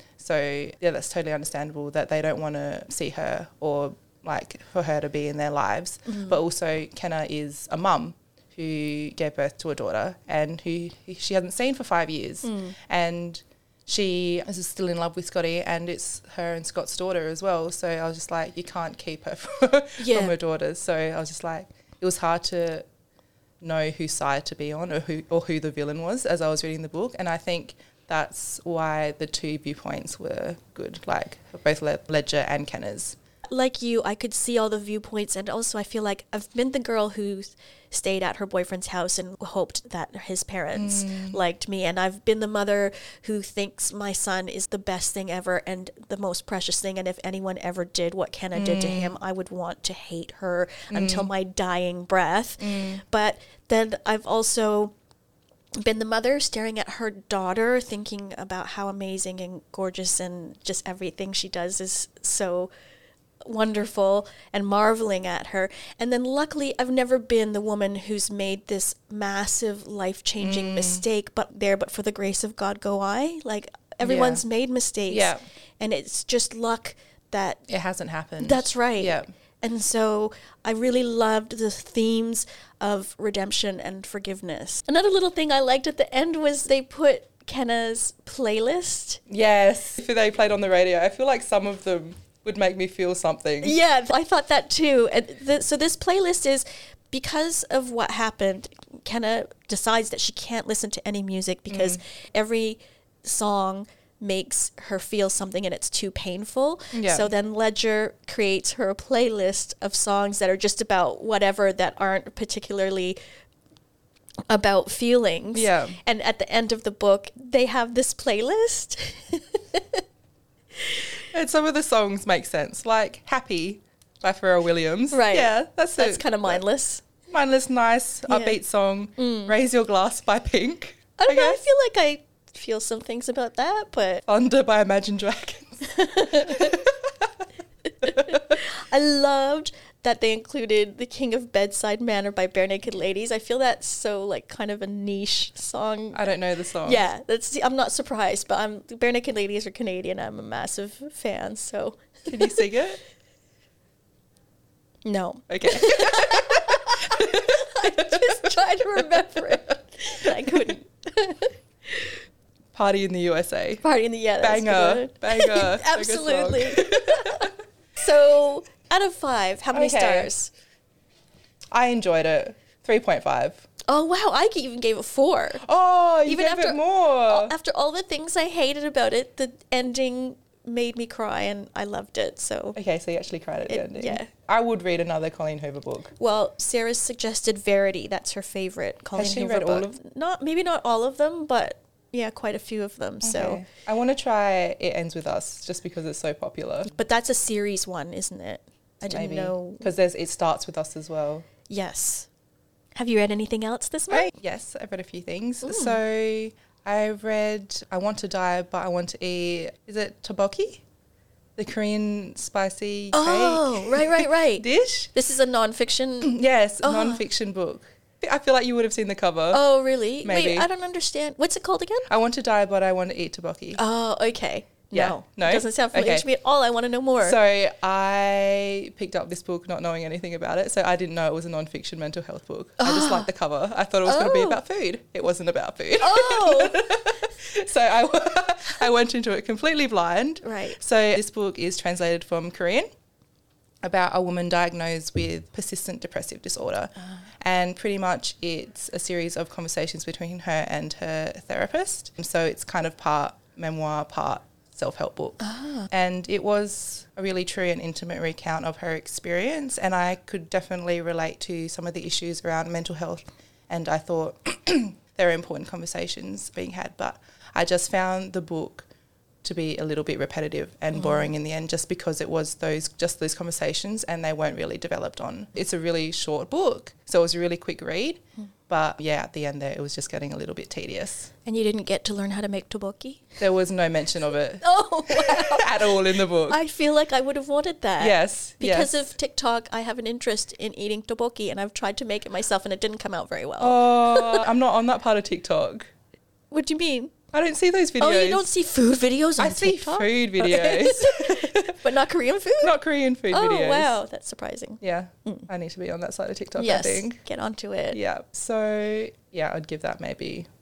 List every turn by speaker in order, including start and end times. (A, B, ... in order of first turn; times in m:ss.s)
0:00.2-0:22.9 A
0:06.1-0:06.4 B
0:12.4-0:12.8 B
0:20.0-0:20.3 B
0:23.6-0:33.2 A
0:33.5-0:54.9 B
0:40.7-0:41.4 A
0:48.5-0:49.2 A
0:50.9-0:51.3 A
0:52.6-0:53.0 A
0:55.8-1:02.7 B
1:03.4-1:17.6 B
1:10.4-1:11.0 A
1:14.0-1:14.4 A
1:15.1-1:15.4 A
1:17.7-1:19.3 A
1:18.4-1:29.2 B
1:29.3-1:33.8 A
1:33.6-1:53.2 B
1:41.7-1:42.0 A
1:46.9-1:47.3 A
1:54.5-2:00.0 B
1:55.5-1:56.0 A
2:01.3-2:06.6 A
2:05.1-2:07.0 B
2:07.3-2:11.6 A
2:08.3-2:08.6 B
2:09.2-2:09.5 B
2:11.2-2:14.2 B
2:14.3-2:17.4 A
2:15.9-2:16.8 B
2:18.0-2:26.2 B
2:18.0-2:18.6 A
2:26.1-2:27.0 A
2:26.8-2:32.4 B
2:32.3-2:33.0 A
2:35.0-2:42.1 B
2:35.5-2:39.6 A
2:40.3-2:40.7 A
2:42.7-2:43.8 A
2:43.8-2:50.5 B
2:44.4-2:47.5 A
2:49.7-2:50.3 A
2:51.7-2:53.6 A
2:53.9-2:55.6 B
2:55.6-2:57.5 A
2:56.2-3:02.8 B
3:02.8-3:06.1 A
3:03.7-3:04.3 B
3:06.2-3:13.6 B
3:09.2-3:10.0 A
3:13.2-3:17.0 A
3:17.0-3:19.9 B
3:19.1-3:21.5 A
3:21.7-3:22.3 B
3:23.0-3:24.3 B
3:24.1-3:30.8 A
3:25.6-3:26.0 B
3:31.6-3:35.1 A
3:33.1-3:37.2 B
3:36.2-3:39.6 A
3:39.5-3:42.1 B
3:40.2-3:40.7 A
3:42.1-3:43.8 A
3:43.8-3:47.4 B
3:44.9-3:46.3 A
3:47.2-4:02.9 A
3:52.8-3:53.3 B
3:54.0-3:54.6 B
3:56.0-3:57.0 B
4:00.4-4:00.8 B
4:03.8-4:28.9 A
4:15.4-4:15.9 B
4:29.4-4:41.3 A
4:31.0-4:31.3 B
4:41.4-4:43.2 B
4:43.4-4:46.6 A
4:44.6-4:54.4 B
4:48.0-4:49.1 A
4:53.6-4:55.9 A
4:56.5-4:57.1 B
4:57.3-4:58.5 A
4:58.0-5:02.8 B
4:59.4-5:01.8 A
5:02.6-5:04.0 A
5:03.3-5:05.5 B
5:04.8-5:07.2 A
5:06.6-5:08.0 B
5:07.9-5:10.5 A